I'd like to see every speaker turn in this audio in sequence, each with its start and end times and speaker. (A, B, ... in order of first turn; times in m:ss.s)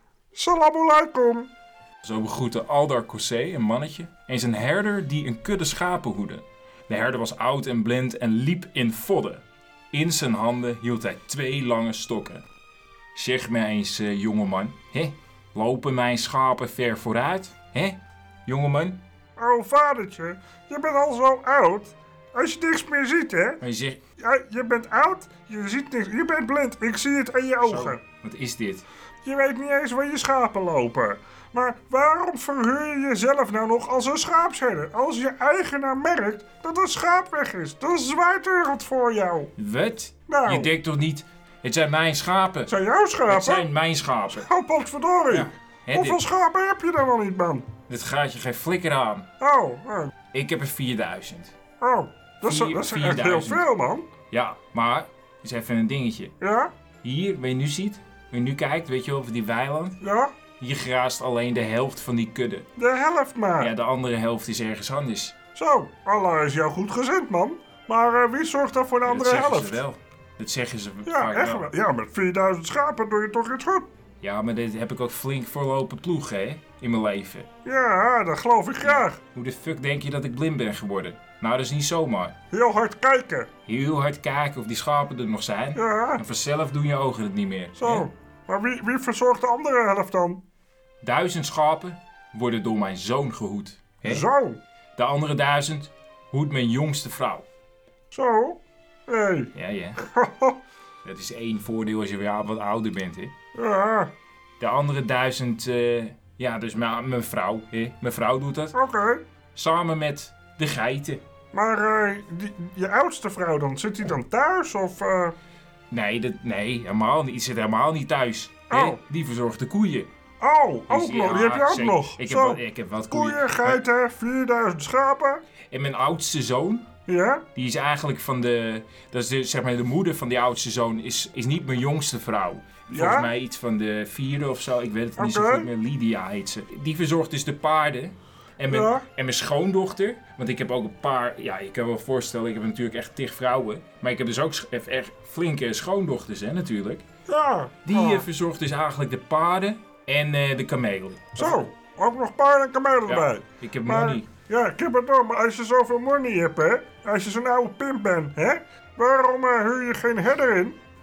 0:00.3-0:01.5 A
0:02.0-0:12.4 B
0:13.1-0:19.0 B
0:19.4-0:23.6 A
0:23.6-0:24.0 B
0:24.2-0:28.0 A
0:27.6-0:28.8 B
0:29.2-0:39.5 A
0:39.6-0:42.7 B
0:40.3-0:40.7 A
0:42.7-0:43.7 A
0:43.2-0:44.5 B
0:44.3-0:47.7 A
0:45.3-0:46.2 B
0:47.9-0:49.2 B
0:49.4-0:50.1 A
0:50.3-0:51.5 B
0:51.8-0:54.1 A
0:52.4-0:53.7 B
0:54.3-0:56.3 B
0:56.4-0:56.7 A
0:57.0-1:00.0 B
1:00.0-1:00.3 A
1:00.6-1:02.7 B
1:02.8-1:03.7 A
1:03.6-1:05.3 B
1:05.6-1:09.8 A
1:09.0-1:11.7 B
1:11.1-1:13.9 A
1:14.2-1:17.5 B
1:17.6-1:19.2 A
1:18.8-1:22.3 B
1:22.5-1:23.5 A
1:23.7-1:28.1 B
1:25.8-1:26.2 A
1:27.8-1:30.4 A
1:31.0-1:34.2 B
1:34.0-1:34.6 A
1:35.0-1:37.4 B
1:38.1-1:39.5 A
1:39.6-1:40.0 B
1:40.1-1:40.6 A
1:41.0-1:43.3 B
1:43.6-1:44.1 A
1:44.6-1:48.8 B
1:48.7-1:49.2 A
1:49.6-1:51.2 B
1:51.5-1:55.3 A
1:55.9-2:00.1 B
1:58.7-1:59.0 A
2:00.4-2:05.4 A
2:00.9-2:03.8 B
2:05.7-2:06.8 B
2:07.1-2:07.4 A
2:07.5-2:27.0 B
2:12.9-2:13.3 A
2:15.2-2:15.7 A
2:18.7-2:19.0 A
2:27.2-2:28.2 A
2:27.8-2:31.7 B
2:31.4-2:40.8 A
2:33.1-2:34.3 B